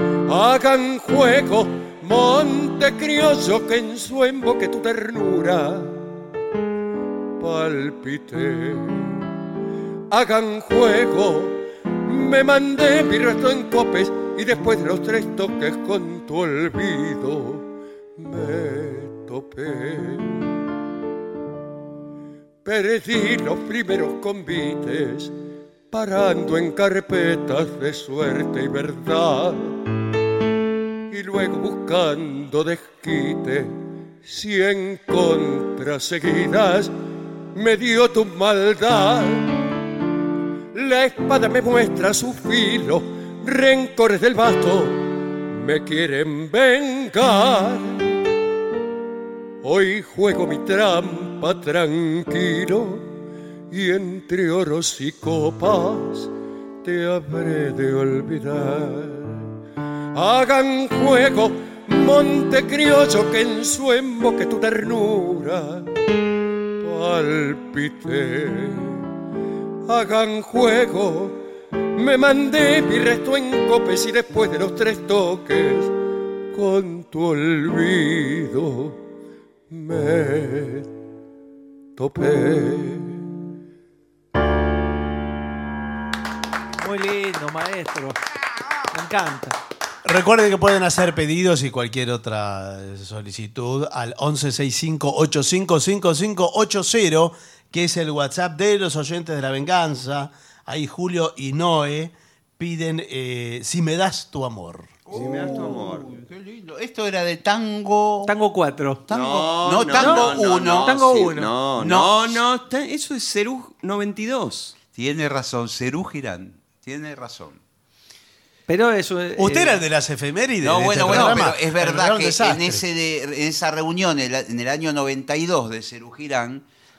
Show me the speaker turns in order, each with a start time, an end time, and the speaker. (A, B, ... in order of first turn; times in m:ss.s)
0:00.3-0:06.0 A
0:07.4-0:09.2 A
0:10.1-0:17.6 A
0:18.2-0:20.5 A
0:22.6-0:25.3 A
0:25.9-0:29.8 A
0:31.1-0:36.9 A
0:37.5-0:39.5 A
0:40.7-0:48.0 A
0:49.6-0:53.1 A
0:53.7-0:56.3 A
0:56.8-0:59.5 A
1:00.1-1:05.9 A
1:06.8-1:09.0 A
1:09.9-1:11.4 A
1:11.9-1:15.9 A
1:16.5-1:19.0 A
1:19.7-1:20.9 A
1:22.0-1:23.2 A
1:26.8-1:28.2 B
1:28.9-1:29.6 B
1:30.0-1:44.9 C
1:45.0-1:48.3 D
1:45.1-1:46.2 E
1:48.2-1:49.0 B
1:49.1-1:50.9 D
1:49.1-1:54.8 E
1:49.9-1:51.6 B
1:51.8-1:52.4 D
1:54.9-1:57.6 D
1:58.7-1:59.8 B
1:59.4-2:02.8 C
2:00.6-2:06.6 D